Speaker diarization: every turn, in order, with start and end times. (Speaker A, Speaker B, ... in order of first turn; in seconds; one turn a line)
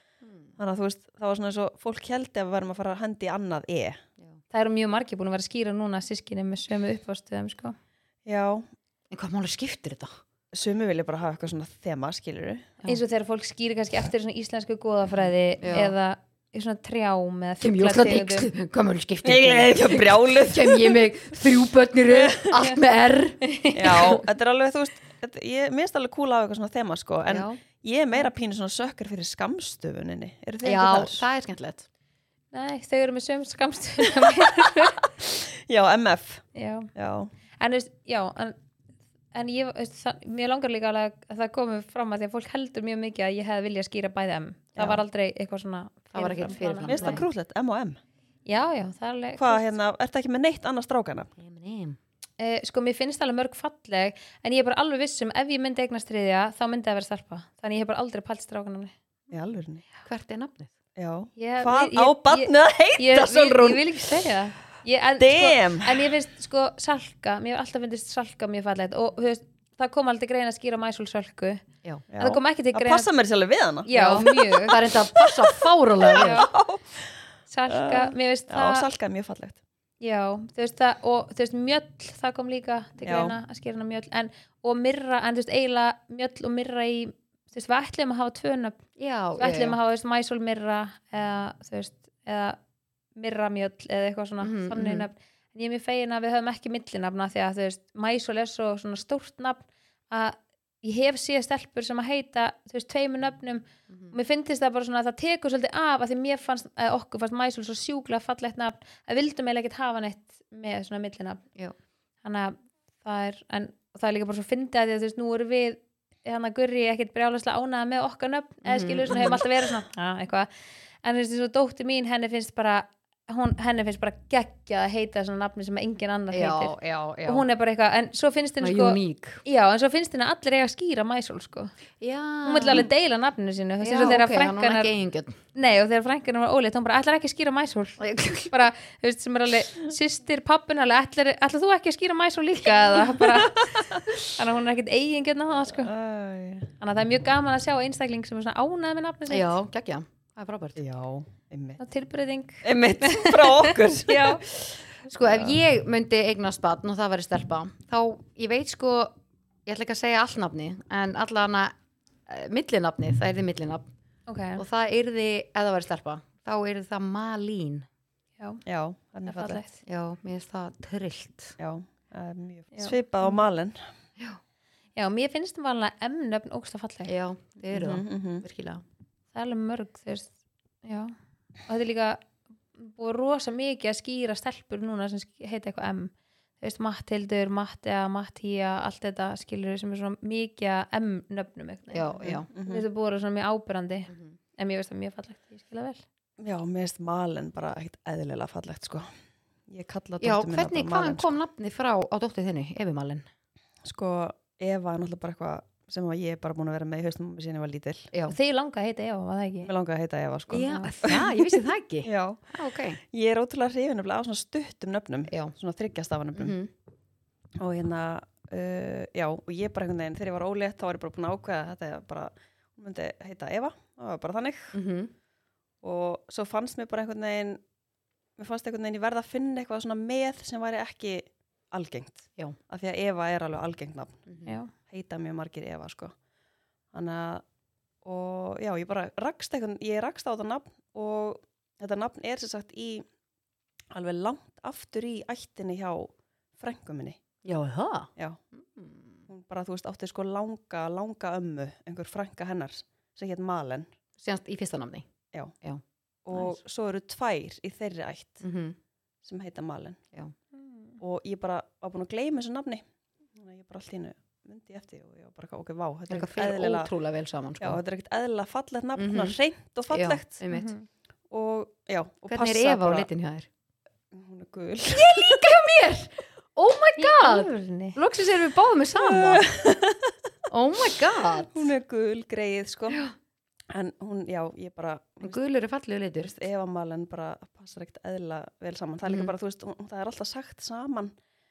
Speaker A: 0.2-0.6
Speaker B: 0.6-4.0
Speaker C: 4.5-7.8
Speaker B: 8.2-8.7
Speaker A: 9.1-10.2
Speaker B: 10.5-12.7
Speaker C: 12.9-18.5
Speaker A: 15.6-15.9
Speaker A: 17.6-23.9
Speaker B: 19.2-21.1
Speaker B: 22.1-22.6
Speaker C: 23.5-24.2
Speaker B: 23.7-31.2
Speaker A: 27.3-27.6
Speaker A: 30.6-31.9
Speaker C: 32.5-35.0
Speaker B: 34.2-34.7
Speaker B: 35.2-36.4
Speaker C: 36.5-36.9
Speaker B: 37.0-37.3
Speaker C: 37.6-38.6
Speaker C: 39.3-47.2
Speaker A: 46.1-47.2
Speaker B: 46.9-48.0
Speaker C: 48.5-49.7
Speaker B: 49.4-51.3
Speaker A: 51.4-52.0
Speaker C: 52.4-58.9
Speaker B: 59.3-59.8
Speaker A: 60.0-60.7
Speaker B: 61.0-64.3
Speaker C: 61.4-71.6
Speaker B: 65.2-66.1
Speaker B: 72.1-79.6
Speaker C: 72.2-73.1
Speaker C: 73.9-74.8
Speaker A: 73.9-76.4
Speaker C: 76.2-76.5
Speaker C: 77.5-78.9
Speaker C: 80.0-88.8
Speaker B: 83.0-83.4
Speaker A: 89.0-89.8
Speaker C: 89.4-92.6
Speaker C: 93.2-111.4
Speaker A: 94.4-95.1
Speaker A: 103.9-104.2
Speaker C: 112.2-120.5
Speaker A: 118.6-119.4
Speaker C: 121.0-131.7
Speaker A: 126.3-127.5
Speaker A: 128.6-129.4
Speaker A: 132.0-132.9
Speaker C: 132.4-134.9
Speaker A: 133.8-135.4
Speaker C: 135.6-138.0
Speaker A: 138.0-138.5
Speaker C: 138.5-145.9
Speaker B: 143.0-144.2
Speaker B: 145.7-146.7
Speaker C: 146.8-149.5
Speaker A: 149.3-150.8
Speaker B: 150.8-151.8
Speaker C: 151.8-154.4
Speaker B: 152.6-155.6
Speaker A: 155.1-159.2
Speaker A: 159.7-161.7
Speaker A: 162.3-163.9
Speaker C: 164.3-164.6
Speaker A: 164.6-167.9
Speaker B: 168.7-169.6
Speaker C: 169.3-169.8
Speaker A: 169.8-171.6
Speaker B: 171.6-173.8
Speaker C: 175.0-177.1
Speaker A: 177.1-178.8
Speaker B: 177.7-178.4
Speaker C: 179.3-180.3
Speaker C: 180.8-181.2
Speaker C: 181.7-182.2
Speaker C: 182.8-196.0
Speaker A: 191.9-192.5
Speaker B: 192.5-192.9
Speaker A: 194.1-194.3
Speaker B: 196.4-199.1
Speaker B: 199.7-201.3
Speaker A: 200.2-203.3
Speaker B: 203.8-208.1
Speaker C: 208.3-209.7
Speaker B: 209.7-212.4
Speaker A: 210.5-213.0
Speaker B: 213.0-216.6
Speaker A: 215.3-215.5
Speaker A: 216.3-216.7
Speaker B: 217.6-224.7
Speaker A: 224.7-225.1
Speaker B: 225.8-227.6
Speaker B: 228.4-234.2
Speaker A: 234.3-234.6
Speaker C: 234.5-234.7
Speaker B: 234.9-236.1
Speaker B: 236.9-237.4
Speaker B: 238.0-243.0
Speaker B: 243.9-247.2
Speaker A: 247.4-249.2
Speaker B: 249.3-253.9
Speaker A: 254.2-255.1
Speaker B: 256.2-258.4
Speaker A: 258.4-258.8
Speaker B: 259.2-260.0
Speaker C: 260.6-261.0
Speaker B: 261.0-262.8
Speaker B: 263.4-266.9
Speaker A: 266.1-267.8
Speaker B: 267.6-270.4
Speaker A: 269.0-269.4
Speaker A: 269.9-270.7
Speaker C: 270.5-270.9
Speaker B: 271.3-273.1
Speaker A: 272.3-273.5
Speaker B: 274.1-275.4
Speaker A: 274.9-279.5
Speaker C: 277.0-278.0
Speaker B: 278.9-280.1
Speaker A: 280.5-281.6
Speaker B: 281.4-283.0
Speaker B: 283.7-285.4
Speaker A: 285.2-286.3
Speaker B: 286.2-291.1
Speaker A: 289.1-289.3